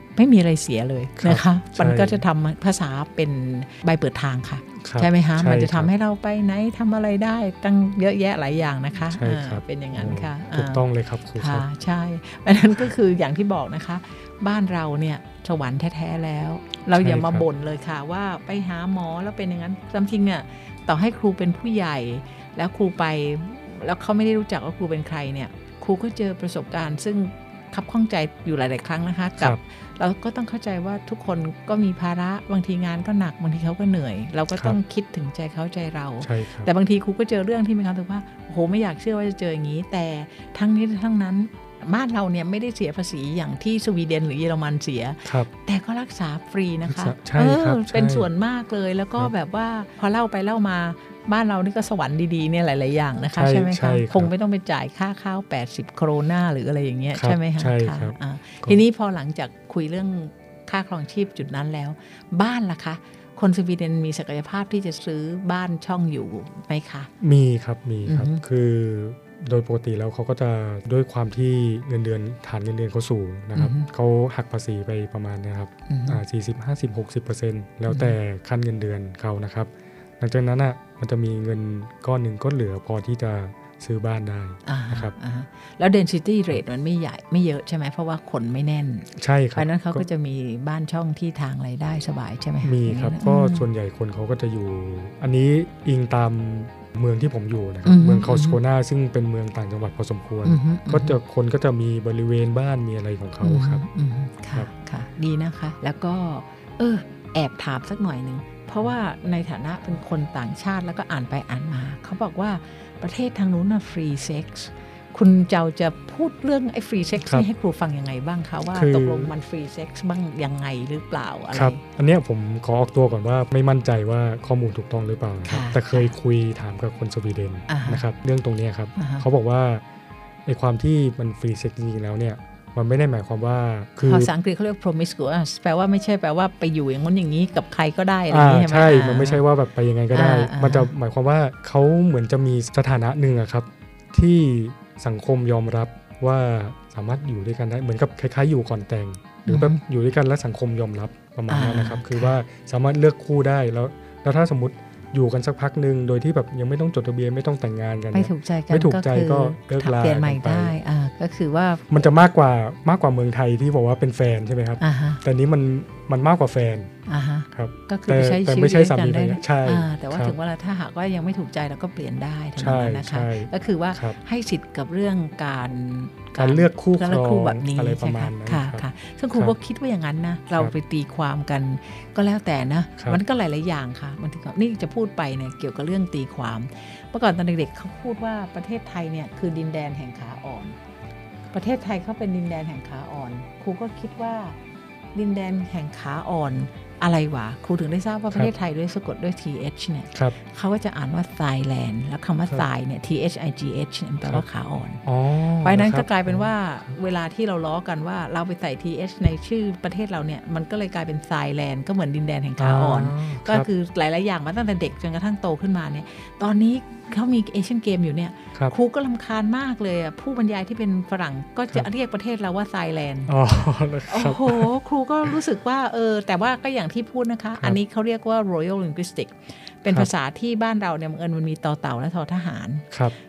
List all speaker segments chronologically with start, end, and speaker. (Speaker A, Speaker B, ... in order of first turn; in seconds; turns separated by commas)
Speaker A: 0.2-10.8, Speaker B: 1.2-2.2, Speaker B: 4.8-5.9, Speaker B: 9.1-11.7, Speaker A: 11.4-67.1, Speaker B: 17.0-17.5, Speaker B: 36.2-36.7, Speaker B: 46.9-48.3, Speaker B: 53.3-54.3, Speaker B: 57.1-58.8, Speaker B: 67.2-85.2, Speaker A: 68.1-68.4, Speaker A: 73.6-73.9, Speaker A: 75.9-76.2, Speaker A: 77.9-78.2, Speaker A: 84.7-93.7, Speaker B: 89.2-90.0, Speaker B: 92.6-103.8, Speaker A: 97.8-98.6, Speaker A: 100.5-101.2, Speaker A: 103.4-121.8, Speaker B: 118.7-119.3, Speaker B: 121.5-129.8, Speaker A: 125.5-126.2, Speaker A: 127.7-128.0, Speaker A: 129.0-129.2, Speaker B: 130.5-134.3, Speaker A: 134.0-139.4, Speaker B: 138.3-160.8, Speaker A: 140.1-140.9, Speaker A: 149.5-149.8, Speaker A: 151.5-152.3, Speaker A: 158.1-162.1, Speaker B: 161.9-166.9, Speaker A: 164.8-165.2, Speaker A: 167.1-190.8, Speaker B: 167.5-170.3, Speaker B: 172.6-174.2, Speaker B: 176.3-178.8, Speaker A: 191.5-194.6, Speaker A: 195.1-205.0, Speaker B: 205.1-206.5, Speaker A: 205.6-223.3, Speaker B: 212.6-213.7, Speaker B: 223.3-224.7, Speaker A: 224.1-232.9